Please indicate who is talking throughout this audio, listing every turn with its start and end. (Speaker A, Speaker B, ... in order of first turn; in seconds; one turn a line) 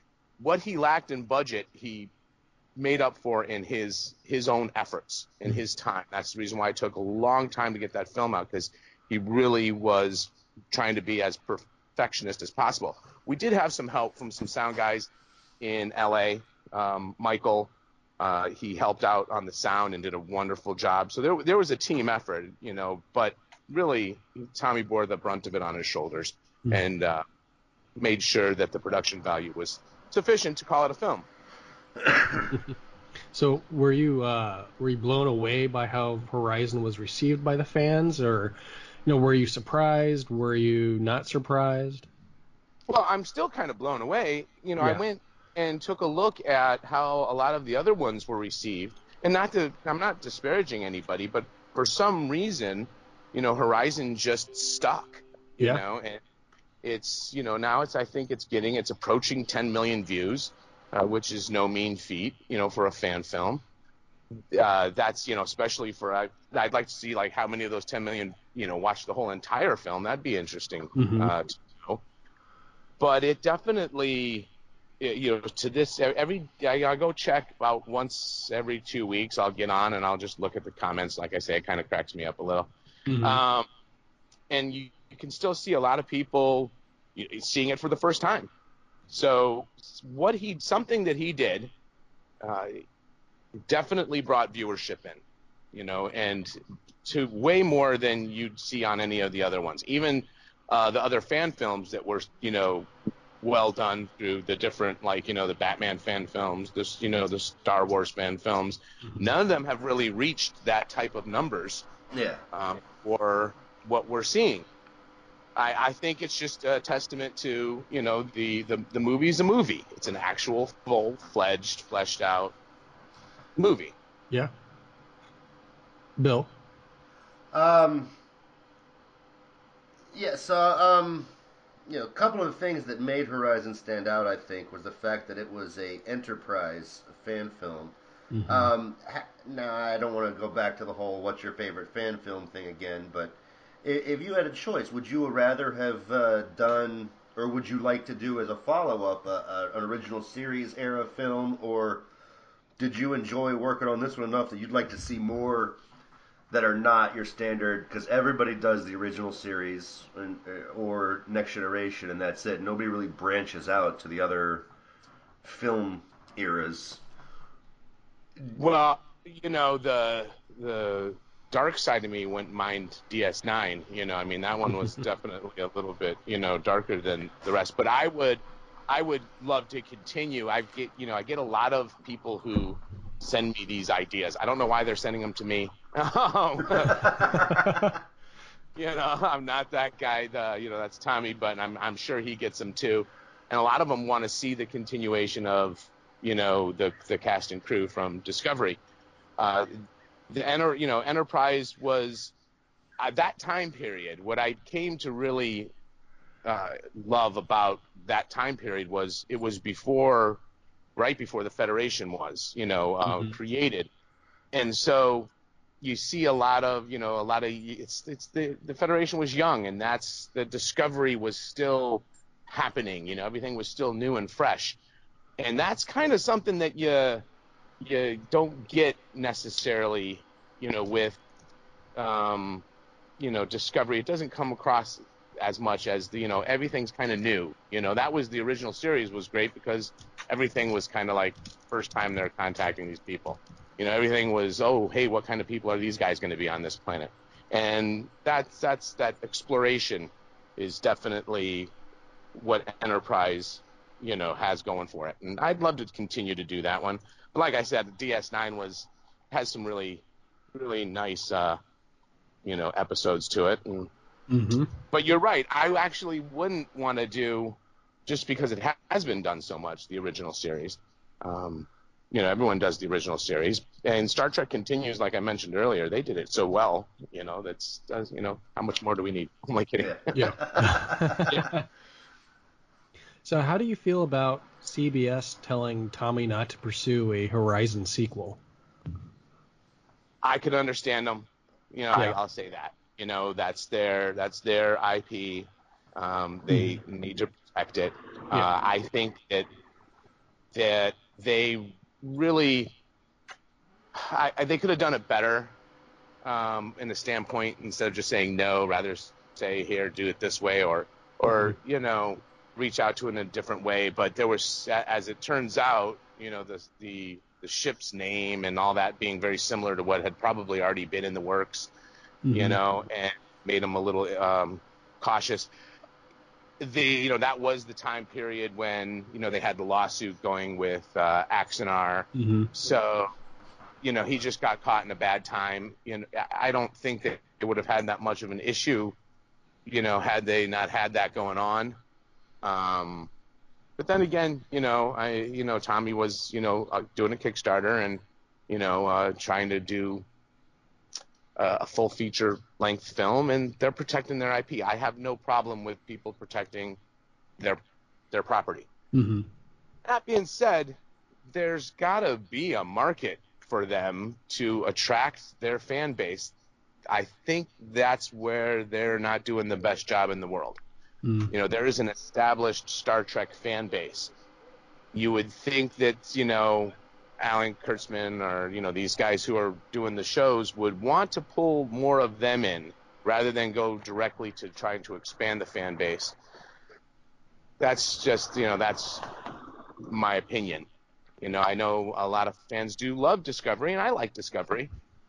Speaker A: 0.4-2.1
Speaker A: 2.8-15.1
Speaker A: 15.6-27.2
Speaker A: 28.0-31.2
Speaker B: 33.3-42.1
Speaker A: 42.9-56.2
Speaker A: 56.8-63.6
Speaker A: 64.5-72.0
Speaker B: 71.0-71.3
Speaker A: 73.0-82.7
Speaker B: 83.1-83.4
Speaker A: 83.2-83.7
Speaker A: 84.5-88.5
Speaker A: 89.1-91.7
Speaker A: 92.4-92.8
Speaker A: 93.7-95.2
Speaker A: 95.7-102.9
Speaker A: 103.4-111.8
Speaker C: 112.1-112.4
Speaker A: 112.5-114.7
Speaker A: 115.5-122.5
Speaker A: 123.6-123.9
Speaker B: 126.2-126.5
Speaker C: 127.5-128.1
Speaker C: 130.1-131.3
Speaker C: 131.9-152.1
Speaker B: 138.3-138.7
Speaker C: 152.8-155.8
Speaker C: 156.5-164.7
Speaker C: 165.4-167.0
Speaker A: 168.4-187.7
Speaker C: 187.1-187.5
Speaker B: 187.5-187.9
Speaker A: 188.7-198.8
Speaker A: 199.4-199.7
Speaker A: 200.3-202.3
Speaker A: 203.0-205.7
Speaker A: 206.4-210.4
Speaker A: 210.9-213.9
Speaker B: 213.0-213.4
Speaker A: 214.5-215.3
Speaker A: 215.8-224.8
Speaker A: 225.4-227.2
Speaker A: 227.8-231.2
Speaker A: 231.9-232.6
Speaker A: 233.2-251.7
Speaker A: 252.3-261.6
Speaker A: 262.4-263.9
Speaker B: 264.3-264.7
Speaker A: 264.9-280.6
Speaker C: 279.8-281.3
Speaker B: 280.1-281.6
Speaker A: 281.2-281.6
Speaker B: 283.2-288.4
Speaker A: 290.2-299.5
Speaker B: 296.5-296.8
Speaker A: 300.5-302.7
Speaker A: 303.9-305.5
Speaker A: 306.2-321.7
Speaker B: 322.2-322.6
Speaker A: 322.3-325.5
Speaker A: 326.6-333.1
Speaker B: 332.1-332.5
Speaker A: 333.8-338.9
Speaker A: 339.6-341.8
Speaker A: 342.4-343.1
Speaker A: 343.8-350.1
Speaker A: 351.4-356.8
Speaker A: 358.1-358.7
Speaker B: 358.9-359.3
Speaker A: 359.9-360.8
Speaker A: 361.3-366.3
Speaker A: 366.9-370.6
Speaker B: 371.0-371.3
Speaker A: 371.3-374.1
Speaker A: 374.9-386.1
Speaker A: 387.6-389.1
Speaker A: 389.8-390.7
Speaker A: 391.2-394.7